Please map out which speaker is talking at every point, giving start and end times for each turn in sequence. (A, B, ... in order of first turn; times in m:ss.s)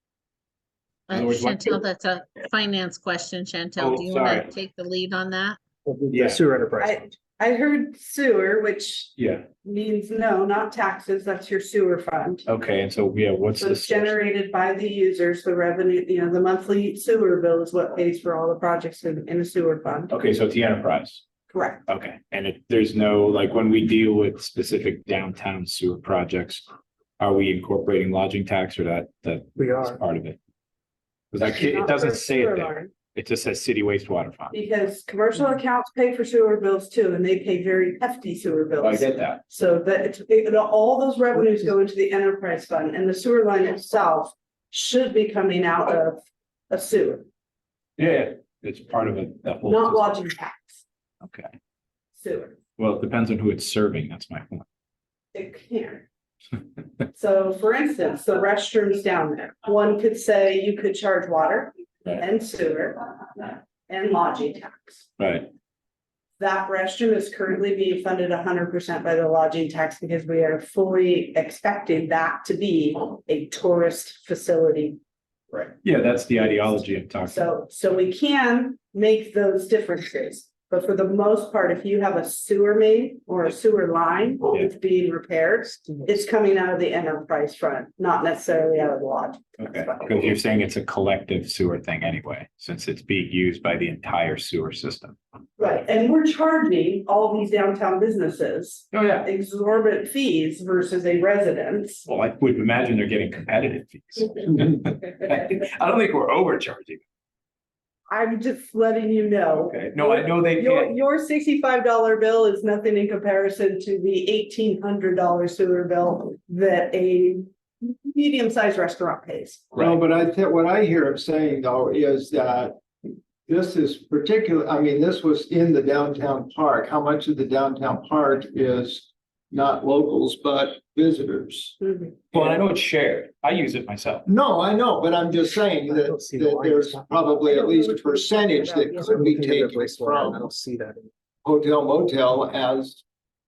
0:01.1-0:05.6 A
0:01.1-0:01.8 B
0:03.8-0:04.5 B
0:05.9-0:07.0 C
0:06.1-0:06.5 B
0:06.8-0:12.5 D
0:09.2-0:09.5 B
0:12.5-0:14.2 B
0:13.6-0:20.1 D
0:20.1-0:21.2 B
0:21.5-0:21.8 D
0:21.9-0:26.6 B
0:27.2-0:30.4 B
0:29.6-0:30.0 C
0:31.3-0:34.6 B
0:31.4-0:32.9 D
0:34.5-0:47.2 D
0:38.8-0:39.4 B
0:48.0-0:50.2 B
0:49.6-0:50.8 D
0:51.2-0:51.5 B
0:52.2-0:52.6 D
0:52.8-0:54.6 B
0:55.3-0:56.0 D
0:57.1-1:05.1 D
1:05.2-1:05.5 B
1:06.4-1:15.0 D
1:15.8-1:17.4 B
1:17.2-1:30.3 D
1:29.6-1:35.2 B
1:35.6-1:42.0 D
1:38.9-1:39.3 B
1:42.1-1:47.0 B
1:48.1-1:59.7 D
1:49.6-1:50.9 B
1:59.8-2:02.8 E
2:03.5-2:11.8 E
2:11.8-2:12.2 D
2:12.3-2:14.2 B
2:12.4-2:12.6 E
2:14.3-2:20.4 E
2:15.9-2:17.2 C
2:17.5-2:19.1 D
2:19.0-2:21.1 C
2:21.4-2:23.0 E